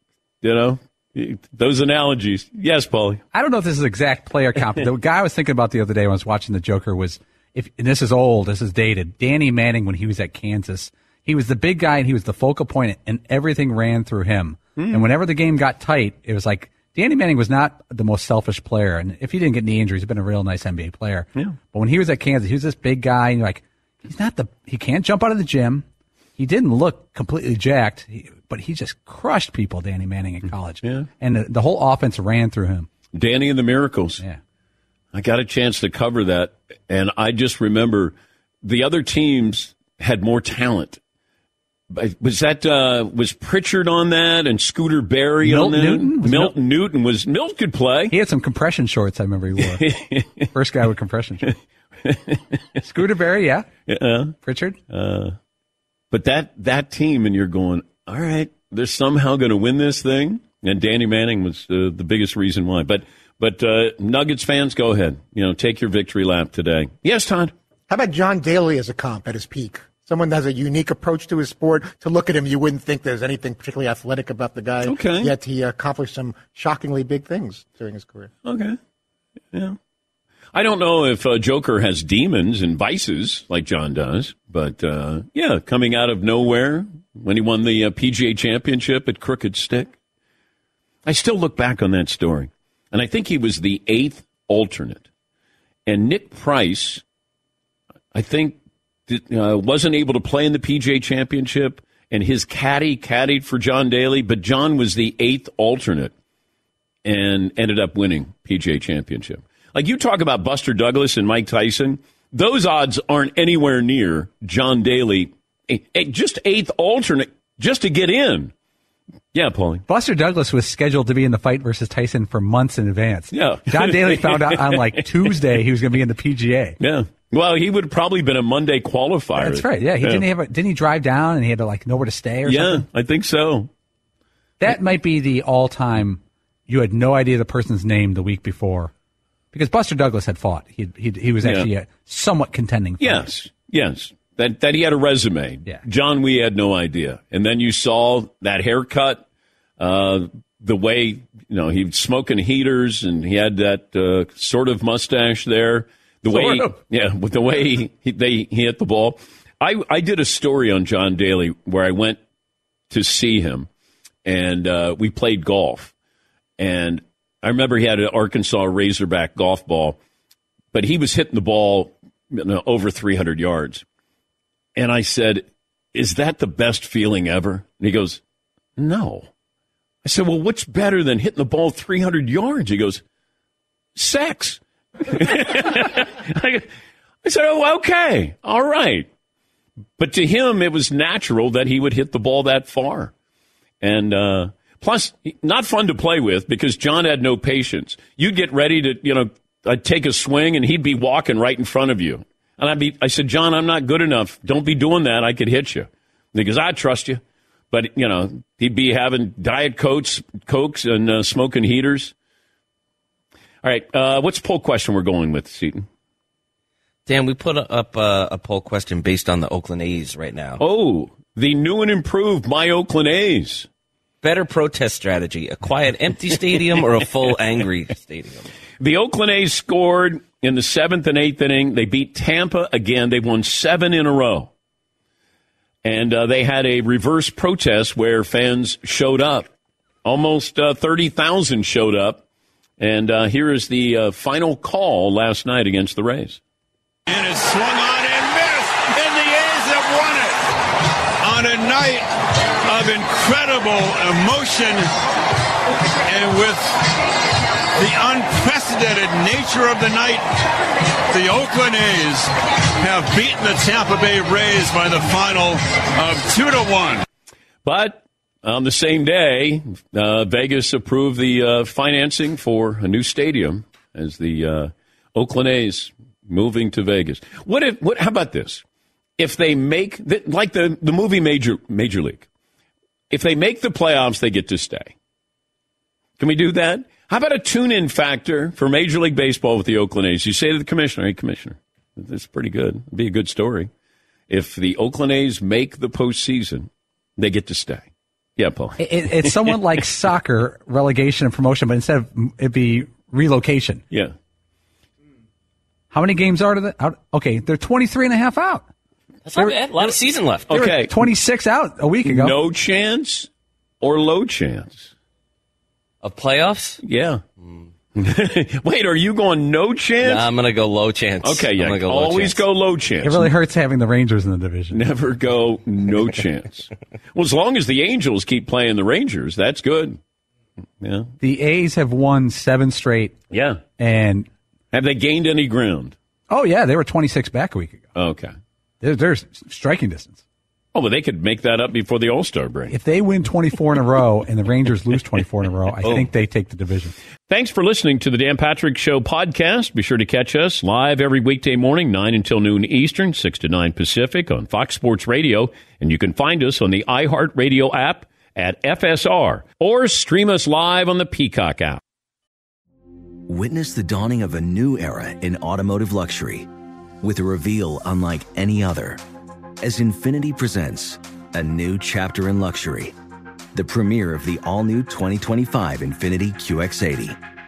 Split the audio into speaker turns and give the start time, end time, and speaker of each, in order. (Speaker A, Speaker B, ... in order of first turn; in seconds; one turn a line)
Speaker A: 0.4-3.2
Speaker B: 3.3-25.9
Speaker A: 14.8-15.1
Speaker B: 26.4-32.9
Speaker A: 30.8-31.1
Speaker A: 33.1-34.2
Speaker A: 35.1-41.0
Speaker A: 41.9-48.1
Speaker B: 45.4-46.5
Speaker B: 48.1-49.8
Speaker A: 49.6-50.5
Speaker B: 50.5-51.5
Speaker A: 52.0-52.8
Speaker B: 52.8-53.7
Speaker A: 53.9-54.4
Speaker B: 54.4-54.8
Speaker A: 54.9-55.4
Speaker A: 56.1-67.5
Speaker C: 67.9-78.3
Speaker A: 74.8-75.3
Speaker A: 78.4-78.8
Speaker A: 80.5-90.0
Speaker A: 91.0-95.1
Speaker A: 95.9-97.0
Speaker A: 98.1-106.1
Speaker A: 107.0-118.5
Speaker A: 119.3-119.8
Speaker B: 119.9-126.8
Speaker A: 123.3-125.3
Speaker A: 126.8-130.2
Speaker B: 129.4-132.8
Speaker A: 132.4-133.7
Speaker B: 134.6-138.9
Speaker B: 139.5-143.3
Speaker A: 141.4-141.7
Speaker A: 143.0-149.2
Speaker A: 149.8-162.2
Speaker B: 156.3-156.7
Speaker A: 162.9-163.7
Speaker A: 164.2-165.9
Speaker A: 166.6-170.0
Speaker A: 170.7-173.8
Speaker A: 174.8-178.2
Speaker A: 178.8-179.3
Speaker A: 180.0-183.0
Speaker A: 184.0-186.7
Speaker A: 187.2-189.1
Speaker A: 190.0-193.1
Speaker A: 193.8-212.1
Speaker A: 213.6-215.9
Speaker D: 217.1-220.6
Speaker A: 220.6-223.7
Speaker D: 224.2-228.5
Speaker A: 228.8-234.5
Speaker A: 235.8-239.5
Speaker A: 240.1-242.2
Speaker A: 242.8-246.4
Speaker E: 247.1-250.5
Speaker E: 251.2-252.1
Speaker E: 252.7-254.9
Speaker E: 256.0-256.9
Speaker E: 257.8-260.3
Speaker E: 261.1-267.1
Speaker A: 267.6-278.6
Speaker A: 279.2-282.3
Speaker A: 283.1-284.9
Speaker A: 286.2-293.7
Speaker A: 294.3-297.9
Speaker A: 298.4-299.6
Speaker B: 298.8-303.8
Speaker B: 305.9-308.7
Speaker D: 309.3-310.5
Speaker A: 310.5-311.0
Speaker B: 310.5-312.3
Speaker A: 312.1-313.3
Speaker A: 313.8-314.9
Speaker D: 316.0-316.8
Speaker A: 316.8-317.2
Speaker D: 317.4-317.7
Speaker A: 317.9-320.3
Speaker D: 320.0-322.4
Speaker A: 321.2-323.3
Speaker B: 323.0-324.8
Speaker A: 324.7-330.0
Speaker A: 330.8-331.1
Speaker B: 331.2-333.2
Speaker A: 333.3-333.6
Speaker B: 333.8-334.3
Speaker A: 334.7-335.9
Speaker B: 336.3-337.9
Speaker A: 337.9-338.3
Speaker B: 338.8-340.2
Speaker A: 340.7-342.7
Speaker B: 342.7-346.9
Speaker A: 347.3-361.8
Speaker F: 363.3-366.5
Speaker F: 367.0-369.0
Speaker F: 369.6-372.9
Speaker F: 373.5-377.2